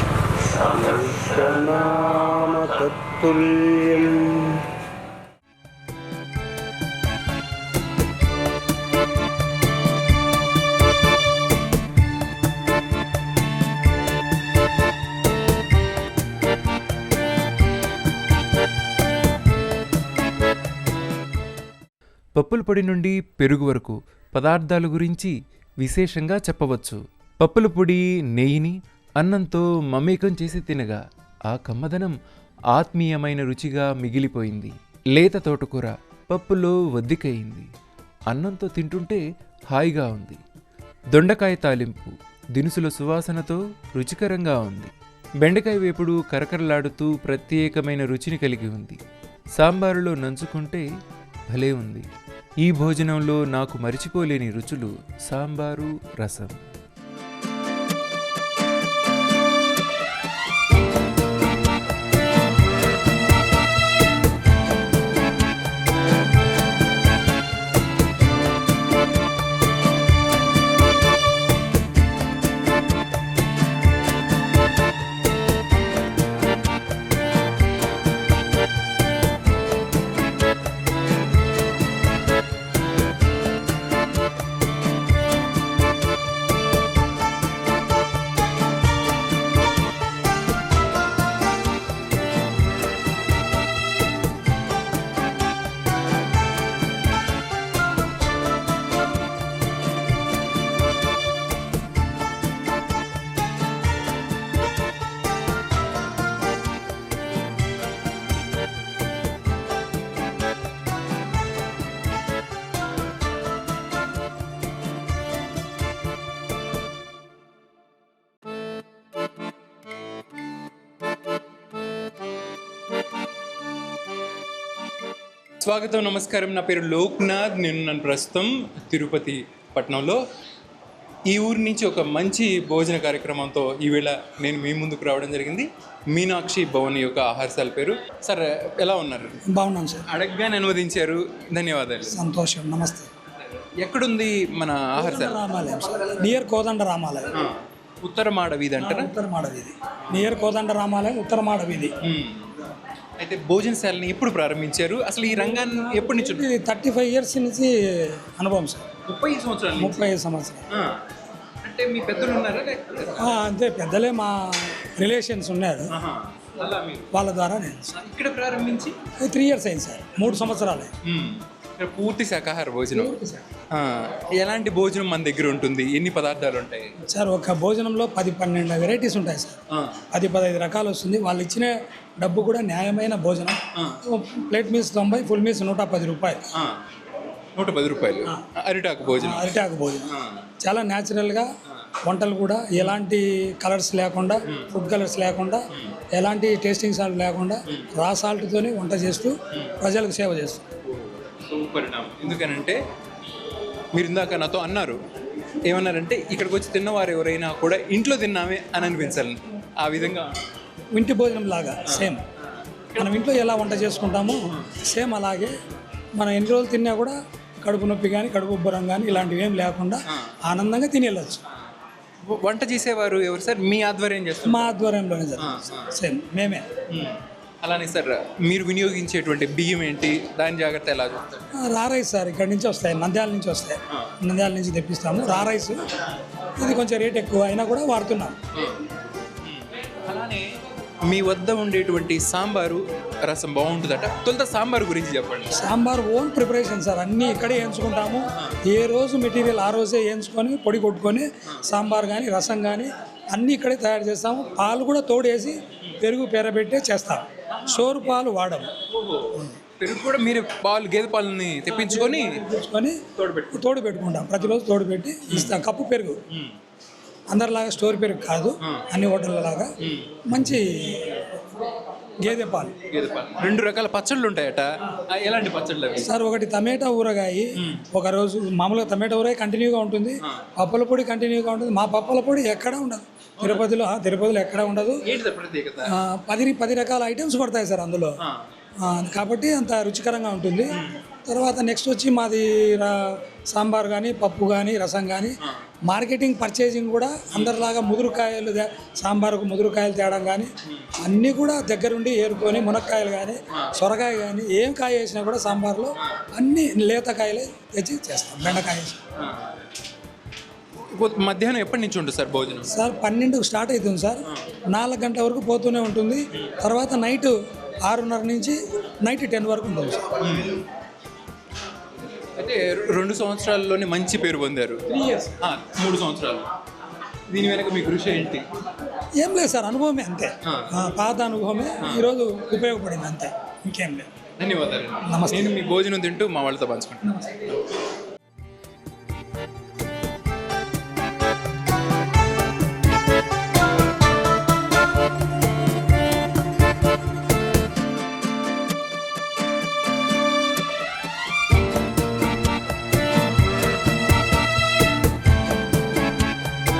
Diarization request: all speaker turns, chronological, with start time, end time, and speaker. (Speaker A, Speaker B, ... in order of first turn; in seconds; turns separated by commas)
Speaker A: 0.5-4.6, Speaker B: 22.4-32.1, Speaker B: 32.8-37.7, Speaker B: 38.3-39.2, Speaker B: 39.7-40.4, Speaker B: 41.1-44.9, Speaker B: 45.4-49.0, Speaker B: 49.6-50.9, Speaker B: 51.5-52.0, Speaker B: 52.6-56.6, Speaker B: 125.6-130.2, Speaker B: 131.3-139.4, Speaker C: 139.5-140.1, Speaker B: 140.1-142.2, Speaker C: 142.1-143.1, Speaker B: 143.8-145.4, Speaker C: 145.0-147.3, Speaker B: 147.3-149.1, Speaker C: 148.8-151.9, Speaker B: 152.0-152.5, Speaker B: 153.2-156.4, Speaker C: 155.3-157.7, Speaker C: 158.4-158.8, Speaker B: 159.1-160.1, Speaker C: 159.8-160.7, Speaker B: 161.6-163.2, Speaker C: 163.2-165.9, Speaker B: 165.9-167.1, Speaker C: 167.1-167.9, Speaker B: 168.0-168.9, Speaker C: 169.2-170.9, Speaker B: 171.1-173.1, Speaker C: 172.9-173.5, Speaker B: 173.7-176.9, Speaker C: 177.1-179.6, Speaker B: 179.7-180.0, Speaker C: 180.1-186.4, Speaker B: 187.6-190.5, Speaker C: 189.1-191.5, Speaker C: 192.1-195.6, Speaker C: 196.2-200.6, Speaker B: 200.8-202.8, Speaker B: 203.9-205.0, Speaker B: 205.6-210.3, Speaker C: 210.9-212.2, Speaker B: 211.9-212.1, Speaker B: 212.9-213.2, Speaker C: 213.0-215.5, Speaker C: 216.2-221.4, Speaker B: 222.3-224.7, Speaker C: 224.4-226.7, Speaker B: 225.4-225.9, Speaker B: 226.9-231.5, Speaker C: 231.6-235.8, Speaker C: 236.6-238.4, Speaker B: 238.5-238.8, Speaker B: 239.4-240.4, Speaker B: 241.0-245.5, Speaker C: 245.5-258.7, Speaker B: 257.5-258.1, Speaker B: 258.9-262.4, Speaker C: 261.7-263.0, Speaker B: 263.2-263.6, Speaker C: 263.5-266.2, Speaker C: 267.3-269.7, Speaker B: 269.8-270.2, Speaker C: 270.3-271.2, Speaker C: 272.2-272.8, Speaker B: 272.9-276.1, Speaker C: 276.0-285.0, Speaker B: 283.4-283.6, Speaker B: 285.0-285.9, Speaker C: 285.9-288.1, Speaker C: 288.9-295.4, Speaker C: 295.9-309.0, Speaker B: 309.2-309.4, Speaker B: 310.9-312.7, Speaker C: 312.7-317.3, Speaker C: 317.9-320.1, Speaker B: 320.2-320.6, Speaker B: 322.4-324.8, Speaker C: 324.9-325.3, Speaker B: 325.4-326.4, Speaker B: 327.3-328.5, Speaker C: 329.2-334.1, Speaker B: 334.4-337.2, Speaker C: 335.0-335.6